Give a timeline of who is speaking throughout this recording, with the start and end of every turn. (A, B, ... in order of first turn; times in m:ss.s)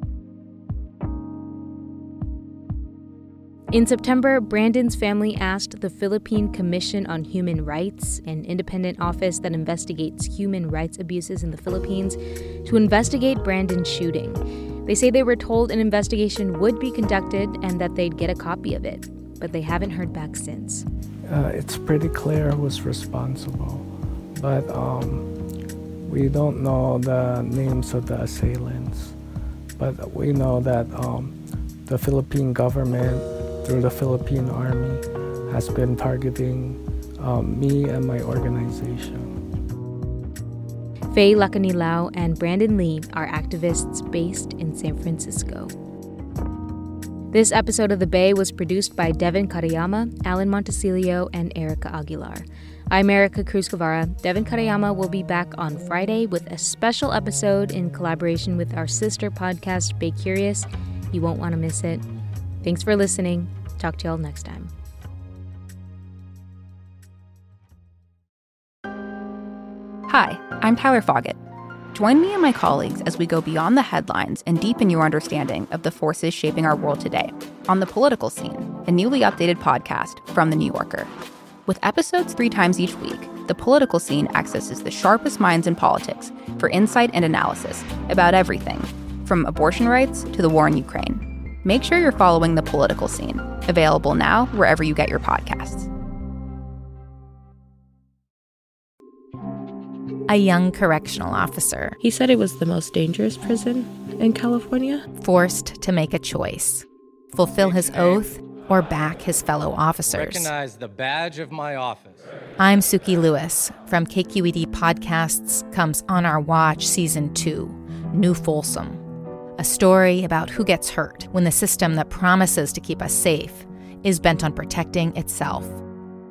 0:03.7-0:20.8 A
0:21.2-0:25.3 B
0:26.0-0:29.2 B
0:29.8-0:39.3 B
0:41.1-0:45.7 A
0:47.3-1:02.0 A
1:02.6-1:04.7 A
1:10.1-1:11.4 C
1:11.9-1:21.1 C
1:21.7-1:35.9 C
1:40.3-1:41.9 D
1:42.0-1:45.0 E
1:45.2-1:50.4 D
1:50.1-1:52.3 F
1:52.6-1:59.0 D
1:59.6-2:05.8 D